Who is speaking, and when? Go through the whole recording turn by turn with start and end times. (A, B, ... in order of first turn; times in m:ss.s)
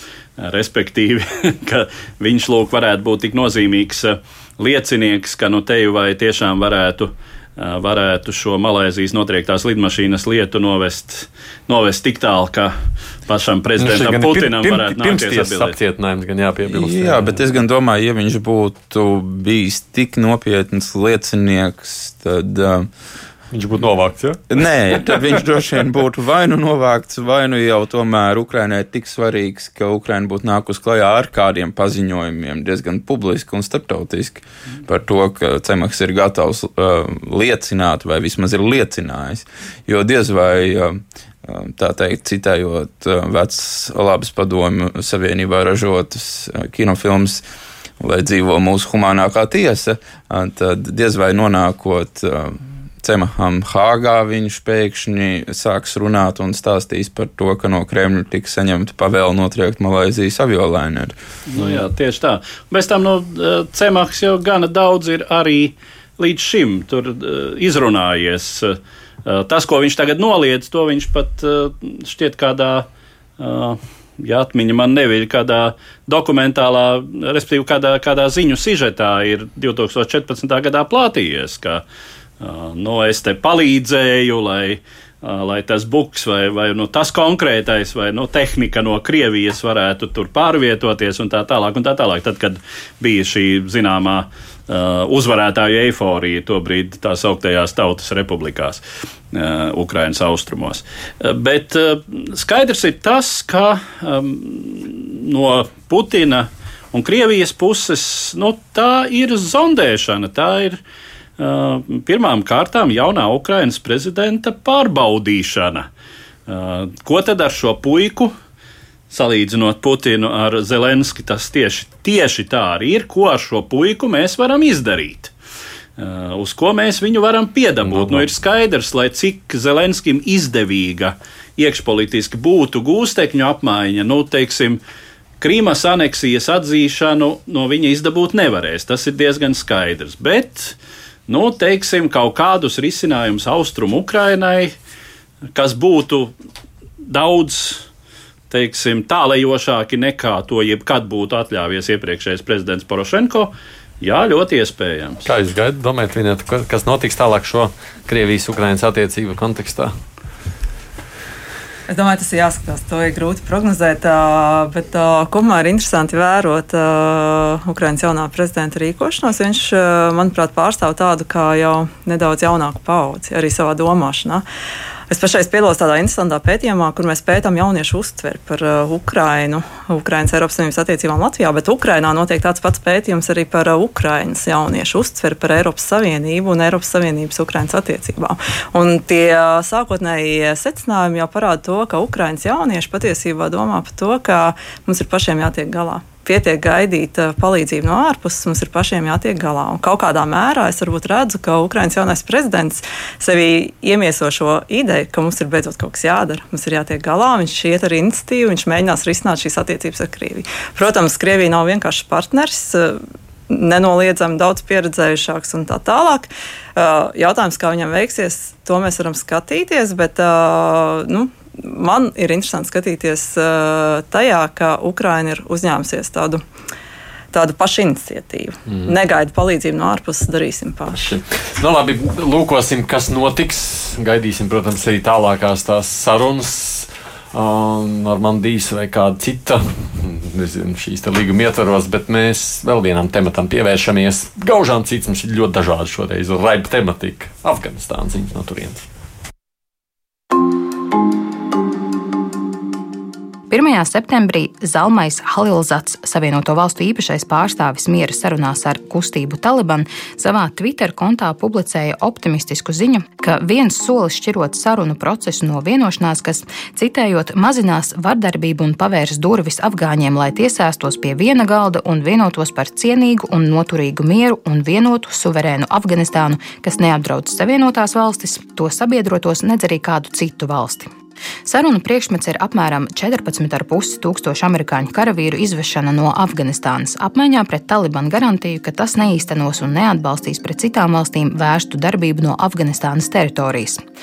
0:00.4-0:12.7 A
0:13.2-0:15.7 A
0:13.8-0:17.4 B
0:16.7-0:22.9 C
0:23.5-0:24.4 B
0:24.5-0:47.4 C
0:48.0-1:01.2 C
1:01.5-1:12.9 A
1:13.4-1:21.8 A
1:22.4-1:50.8 A
1:51.4-1:55.9 A
1:56.5-1:58.3 A
1:59.1-2:05.3 A
2:06.0-2:14.8 A
2:07.8-2:08.3 B
2:15.4-2:20.8 A
2:21.3-2:24.7 A
2:25.5-2:26.3 A
2:27.0-2:27.8 A
2:28.5-2:35.2 A
2:35.2-2:39.9 B
2:41.9-2:54.4 D
2:55.1-3:46.4 D
3:47.3-3:51.0 D
3:50.9-4:08.8 B
4:13.5-4:40.9 E
4:41.4-4:53.8 E